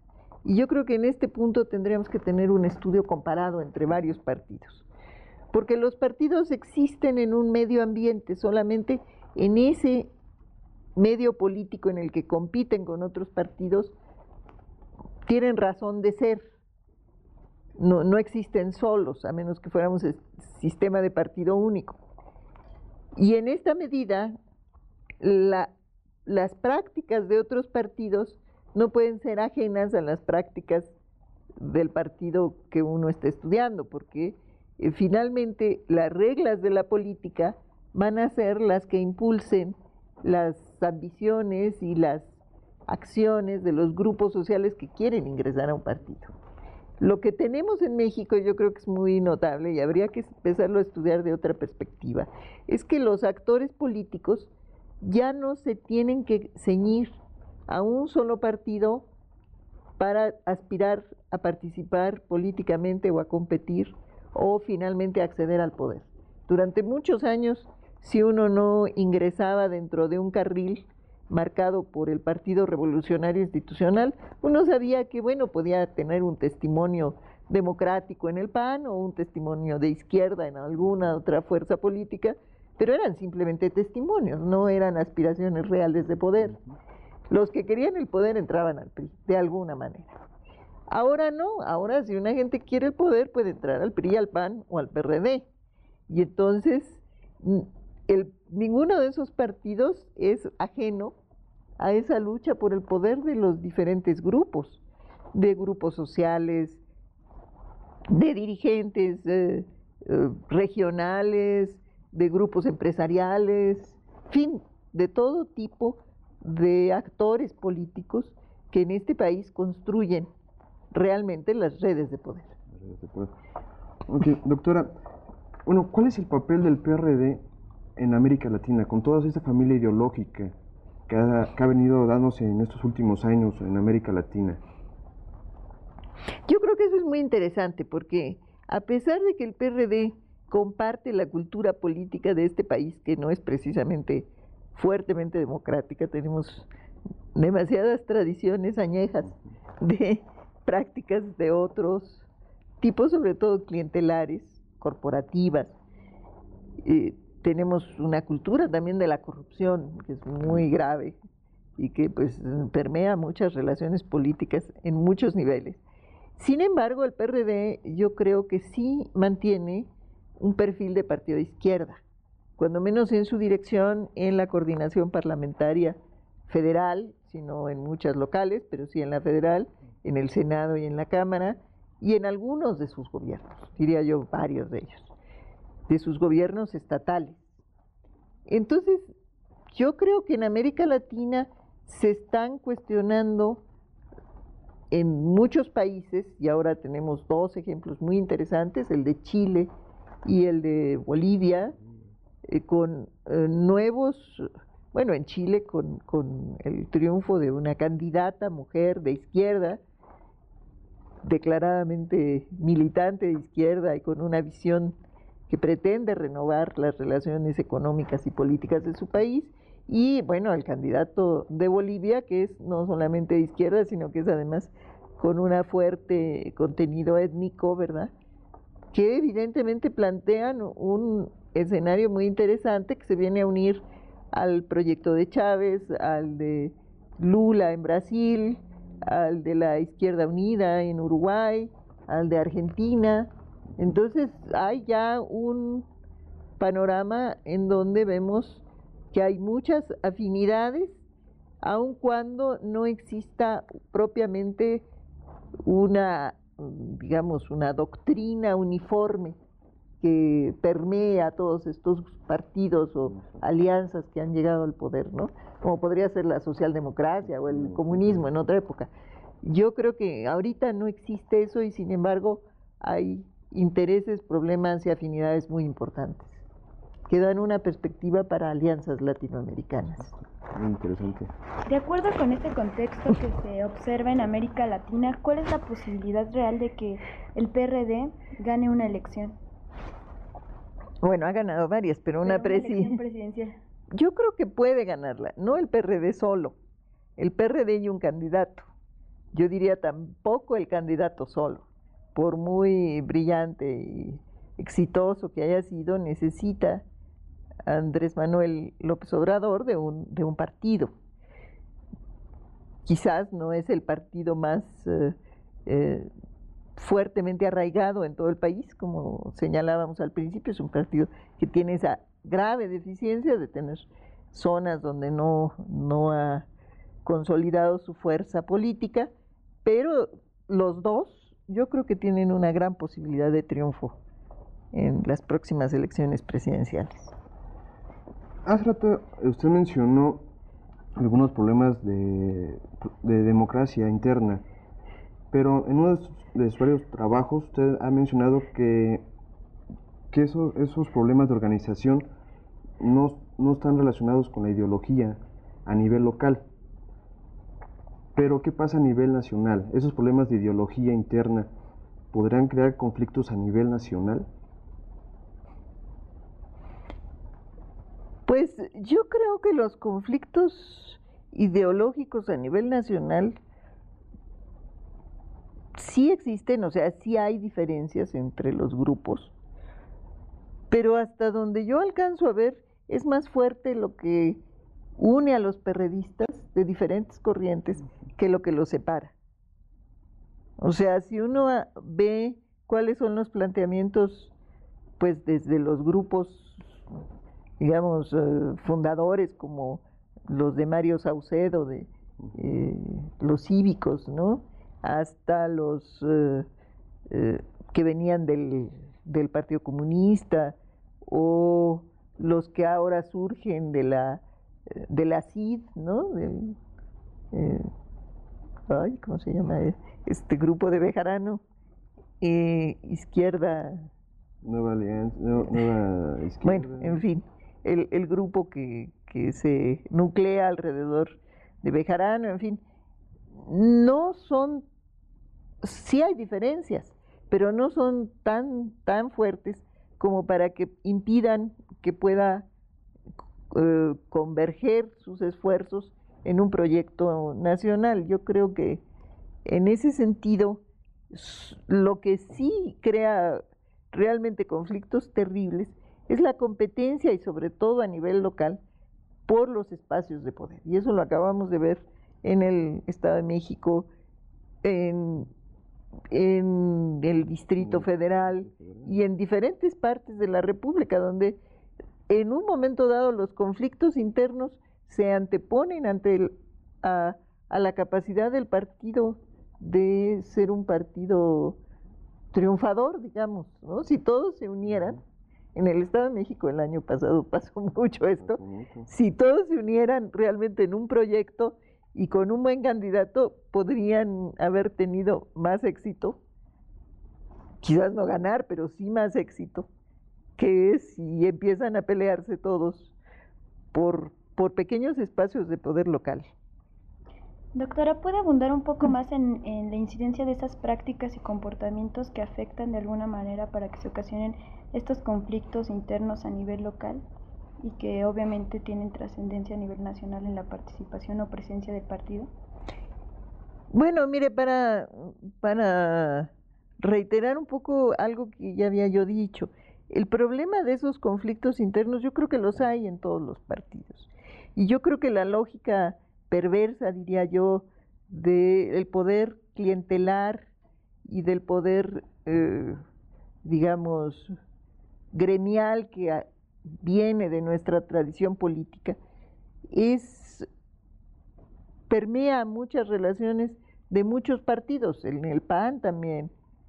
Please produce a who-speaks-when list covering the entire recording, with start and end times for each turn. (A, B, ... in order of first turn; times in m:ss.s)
0:00.4-0:04.8 A
0:05.5-0:10.1 A
0:11.0-0:14.0 A
0:15.2-0:16.4 A
0:17.8-0:22.0 A
0:23.2-0:24.3 A
0:25.2-0:25.7 A
0:26.2-0:30.9 A
0:31.6-0:46.3 A
0:47.0-0:54.5 A
0:55.0-0:59.0 A
1:00.0-1:26.6 A
1:27.3-1:30.2 A
1:30.9-1:35.5 A
1:36.1-1:41.2 A
1:41.8-1:44.8 A
1:45.3-1:46.8 A
1:48.1-2:00.3 A
2:00.9-2:02.5 A
2:02.7-2:03.3 B
2:04.1-2:04.9 B
2:05.6-2:07.4 B
2:08.0-2:10.5 B
2:11.1-2:14.6 B
2:16.5-2:26.7 A
2:27.3-2:32.2 A
2:32.8-2:35.8 A
2:36.8-2:41.2 A
2:41.8-2:45.8 A
2:46.4-2:52.0 A
2:52.6-3:05.1 A
3:05.9-3:07.5 A
3:08.5-3:09.1 A
3:09.7-3:13.6 A
3:14.9-3:19.7 A
3:20.2-3:21.8 A
3:22.4-3:29.8 A
3:31.2-3:35.0 A
3:35.5-3:48.1 A
3:48.9-4:05.9 A
4:06.6-4:11.0 A
4:11.6-4:14.8 A
4:15.6-4:19.4 A
4:20.0-4:28.9 A
4:23.1-4:23.4 B
4:27.4-4:28.3 B
4:29.4-4:36.4 A
4:37.1-4:40.1 A
4:40.4-4:41.3 B
4:41.7-4:49.4 C
4:51.0-4:53.0 A
4:52.2-4:53.6 C
4:53.9-4:56.6 A
4:57.2-4:58.6 A
4:59.3-5:06.8 A
5:07.6-5:10.9 A
5:12.8-5:16.1 A
5:16.8-5:26.5 A
5:27.0-5:29.1 A
5:29.6-5:34.0 A
5:34.7-5:37.1 A
5:38.4-5:40.2 B
5:41.0-5:44.4 B
5:45.3-5:49.0 B
5:50.1-5:52.1 B
5:52.8-5:56.4 B
5:58.1-6:01.5 B
6:02.1-6:04.3 B
6:08.3-6:13.4 A
6:15.7-6:19.3 A
6:20.7-6:24.4 A
6:25.0-6:29.1 A
6:30.6-6:34.3 A
6:35.0-6:36.7 A
6:37.6-6:46.5 A
6:47.1-6:56.6 A
6:57.3-6:57.7 A
6:58.7-7:01.4 A
7:02.2-7:03.9 A
7:04.4-7:07.0 B
7:06.4-7:12.6 A
7:13.4-7:14.7 A
7:15.6-7:22.5 A
7:23.5-7:28.8 A
7:29.4-7:38.6 A
7:39.2-7:43.9 A
7:44.6-7:45.3 A
7:46.1-7:51.4 A
7:47.6-7:48.9 B
7:52.1-8:01.6 A
8:02.3-8:05.0 A
8:05.5-8:16.2 A
8:08.2-8:08.9 B
8:17.6-8:19.7 A
8:20.4-8:22.9 A
8:23.7-8:26.3 A
8:27.5-8:37.0 C
8:37.6-8:42.3 C
8:43.7-8:46.3 A
8:46.8-9:00.5 A
9:01.0-9:02.8 A
9:03.4-9:04.3 A
9:05.1-9:09.0 A
9:09.7-9:10.5 A
9:11.9-9:16.3 A